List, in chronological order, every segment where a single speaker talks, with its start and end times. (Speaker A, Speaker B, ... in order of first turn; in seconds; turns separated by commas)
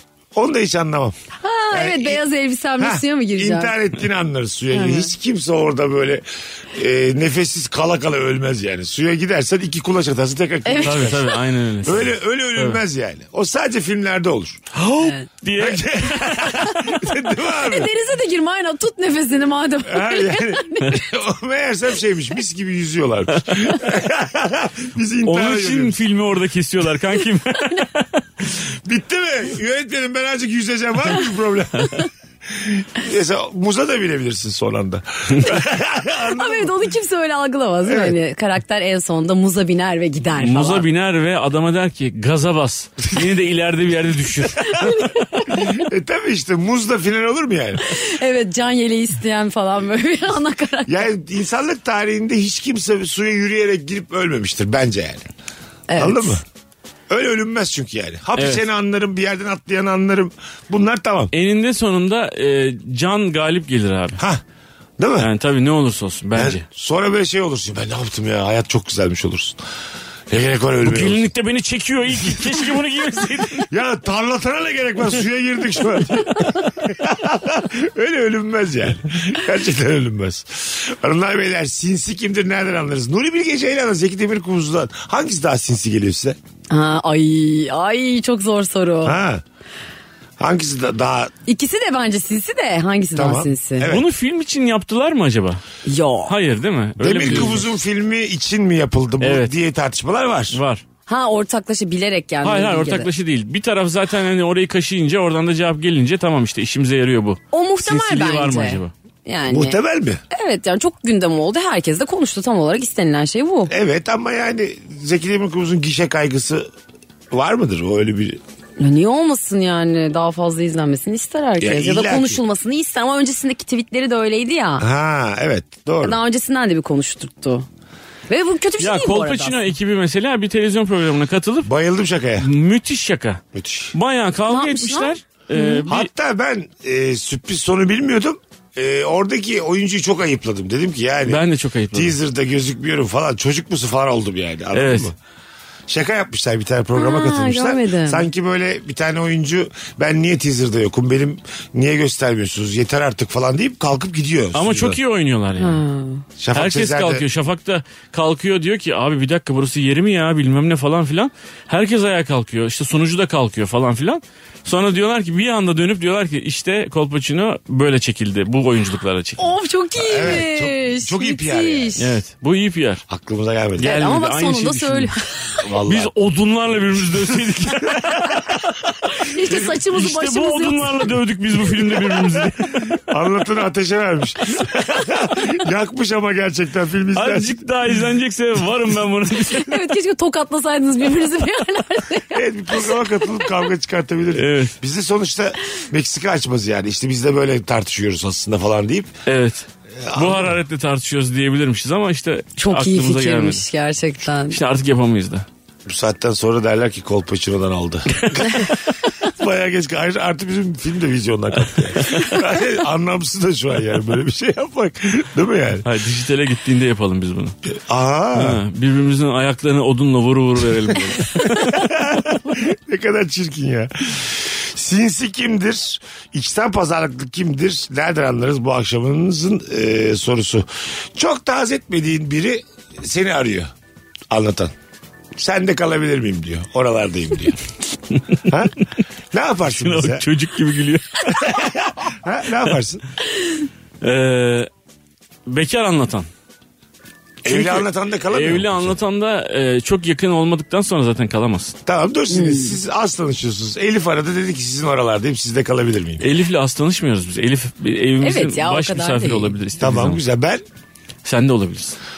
Speaker A: 0.3-1.1, Speaker B: 1.4-3.7, Speaker A: 1.7-2.2, Speaker A: 2.8-11.2, Speaker B: 4.7-5.1, Speaker B: 10.6-11.4, Speaker C: 10.8-12.8, Speaker A: 11.8-14.6, Speaker C: 14.7-16.8, Speaker B: 15.0-15.3, Speaker A: 15.6-17.9, Speaker B: 17.3-21.1, Speaker A: 19.8-26.0, Speaker C: 23.3-23.7, Speaker C: 25.2-28.1, Speaker A: 28.8-36.7, Speaker C: 35.3-35.5, Speaker B: 36.3-40.9, Speaker A: 37.8-38.1, Speaker C: 40.4-45.2, Speaker B: 44.5-45.9, Speaker A: 45.5-47.9, Speaker B: 47.8-51.1, Speaker A: 50.9-55.2, Speaker B: 55.9-56.4, Speaker A: 56.0-56.4, Speaker A: 57.1-61.3, Speaker C: 58.4-58.6, Speaker C: 61.3-64.2, Speaker A: 65.0-65.3, Speaker C: 65.2-66.6, Speaker A: 66.3-69.6, Speaker A: 70.3-71.2, Speaker C: 70.8-73.7, Speaker A: 73.7-86.4, Speaker B: 86.7-89.2, Speaker A: 89.0-89.4, Speaker A: 90.4-91.3, Speaker B: 91.5-93.9, Speaker A: 93.2-94.1, Speaker C: 93.9-95.6, Speaker B: 95.8-96.3, Speaker C: 96.3-97.6, Speaker A: 97.0-100.6, Speaker C: 99.2-99.5, Speaker C: 100.5-100.8, Speaker B: 101.1-103.1, Speaker C: 102.4-108.9, Speaker B: 107.5-109.8, Speaker A: 109.5-110.2, Speaker B: 110.3-113.7, Speaker A: 113.7-116.7, Speaker A: 117.3-118.4, Speaker B: 118.8-124.8, Speaker A: 121.6-122.4, Speaker A: 124.8-126.2, Speaker B: 126.0-127.7, Speaker B: 128.3-129.6, Speaker C: 128.8-131.7, Speaker A: 131.6-132.5, Speaker C: 132.4-133.4, Speaker A: 133.5-133.9, Speaker C: 133.9-136.1, Speaker B: 134.5-135.8, Speaker A: 135.9-141.4, Speaker C: 141.3-142.2, Speaker A: 141.9-145.2, Speaker C: 144.7-145.1, Speaker A: 145.9-155.0, Speaker B: 146.9-148.2, Speaker C: 154.5-155.8, Speaker B: 155.6-156.2, Speaker A: 156.4-157.2, Speaker C: 156.5-169.4, Speaker B: 169.4-172.2, Speaker A: 170.0-172.0, Speaker C: 172.0-173.0, Speaker A: 173.1-173.9, Speaker C: 173.8-175.1, Speaker B: 173.8-175.6, Speaker A: 175.6-176.1, Speaker C: 175.8-178.1, Speaker A: 177.2-178.7, Speaker B: 179.0-181.1, Speaker C: 179.5-183.0, Speaker A: 182.9-187.6, Speaker C: 187.1-189.8, Speaker B: 189.5-193.4, Speaker A: 192.3-199.1, Speaker C: 194.3-194.7, Speaker C: 199.2-203.6, Speaker A: 200.0-200.6, Speaker B: 202.6-204.6, Speaker C: 204.5-205.4, Speaker A: 205.8-215.8, Speaker C: 215.8-217.6, Speaker A: 217.7-218.6, Speaker C: 218.3-221.9, Speaker A: 221.5-233.7, Speaker A: 234.3-234.7, Speaker A: 235.3-237.6, Speaker A: 238.5-238.7, Speaker A: 239.3-240.2, Speaker C: 239.7-241.7, Speaker A: 241.4-243.0, Speaker C: 244.0-244.7, Speaker C: 245.4-246.3, Speaker A: 247.4-249.0, Speaker C: 247.4-251.8, Speaker A: 251.8-256.3, Speaker B: 252.3-252.8, Speaker C: 256.2-260.2, Speaker B: 258.2-259.5, Speaker A: 259.8-260.6, Speaker C: 261.2-262.0